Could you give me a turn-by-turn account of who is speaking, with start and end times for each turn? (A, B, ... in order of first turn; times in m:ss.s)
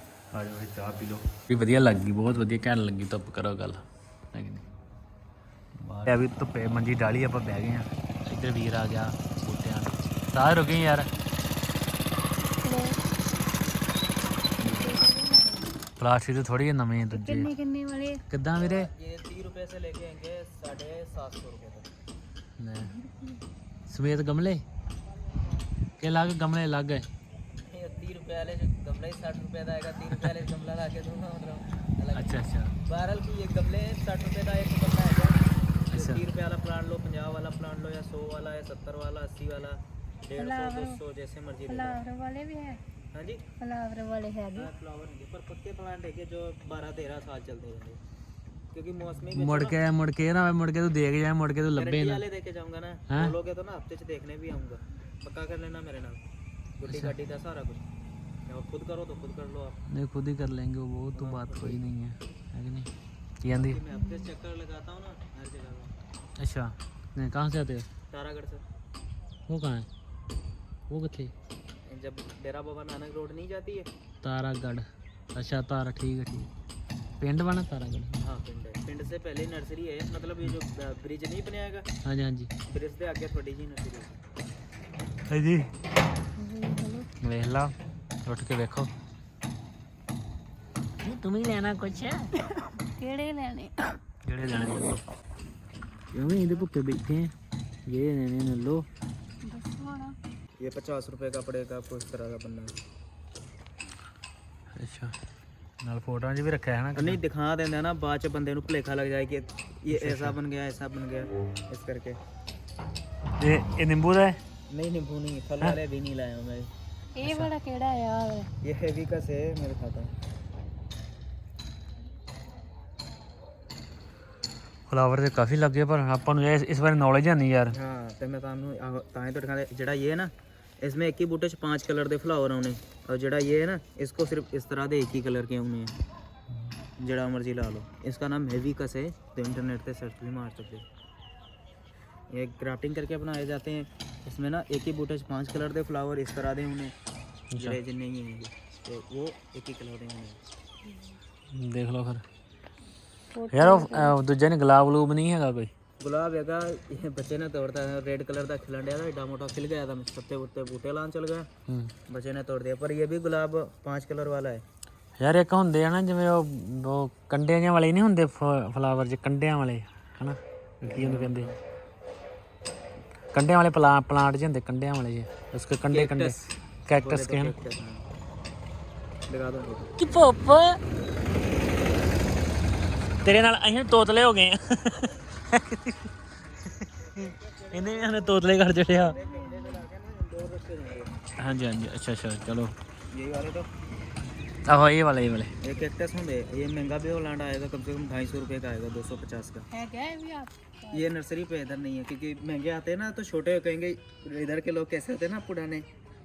0:00.3-0:04.7 A
0:05.8-0:11.1 A
0:12.6-0:13.0 B
0:14.6-0:15.1 A
0:14.7-0:15.7 B
0:16.0-0:17.5 A
0:17.1-0:18.2 B
0:18.3-0:18.9 A
0:18.6-0:21.9 C
0:22.6-0:22.9 A
0:22.8-0:23.4 B
0:23.9-0:24.6 A
0:26.0-0:27.1 A
0:27.7-0:35.4 C
0:32.1-0:32.8 A
0:35.9-0:36.2 A
0:35.9-0:42.0 C
0:40.4-0:41.0 B
0:41.7-0:42.8 B
0:43.1-0:43.4 C
0:43.6-0:44.7 B
0:44.6-0:48.0 C
0:48.7-0:49.8 C
0:49.3-0:52.2 A
0:51.8-0:56.2 C
0:53.1-0:53.4 A
0:56.8-0:57.8 C
0:56.9-0:57.2 A
0:58.5-0:59.8 C
0:59.9-1:02.9 A
1:01.2-1:01.8 C
1:03.4-1:03.8 A
1:03.5-1:05.9 C
1:03.9-1:04.3 B
1:06.4-1:07.9 A
1:08.1-1:08.6 C
1:09.5-1:09.9 A
1:10.9-1:11.3 A
1:11.9-1:13.9 C
1:14.2-1:16.5 A
1:17.2-1:18.2 A
1:18.2-1:21.9 C
1:22.0-1:22.5 A
1:22.7-1:24.2 C
1:25.3-1:25.7 A
1:26.4-1:27.1 B
1:27.2-1:27.7 A
1:28.2-1:28.9 A
1:31.0-1:32.3 A
1:32.6-1:33.9 B
1:34.2-1:35.0 A
1:36.1-1:37.3 A
1:37.9-1:38.9 A
1:39.4-1:40.2 B
1:40.6-1:42.7 C
1:44.7-1:45.2 A
1:45.8-1:47.2 A
1:47.0-1:52.2 C
1:49.9-1:50.4 A
1:53.4-1:54.4 A
1:54.7-1:56.7 C
1:57.2-1:58.5 B
1:57.2-1:57.5 A
1:58.6-2:00.1 C
2:04.9-2:07.8 A
2:07.7-2:16.0 C
2:17.0-2:20.8 C
2:22.3-2:26.9 C
2:27.5-2:27.8 A
2:27.6-2:30.4 C
2:30.9-2:31.2 B
2:31.5-2:32.2 A
2:33.3-2:34.2 B
2:33.5-2:35.7 A
2:36.0-2:41.5 C
2:41.7-2:41.9 A
2:42.1-2:44.6 C
2:45.2-2:51.5 A
2:50.8-2:51.6 C
2:53.3-2:57.6 A
2:55.9-2:56.4 C
2:57.0-2:58.1 C
2:59.3-2:59.9 C
3:00.0-3:00.8 A
3:03.2-3:06.1 A
3:06.7-3:07.2 A
3:07.1-3:11.2 C
3:07.7-3:09.2 A
3:09.1-3:09.8 B
3:11.4-3:12.7 A
3:13.1-3:13.7 C
3:14.7-3:15.5 A
3:15.6-3:19.7 C
3:19.7-3:21.1 B
3:20.9-3:25.9 C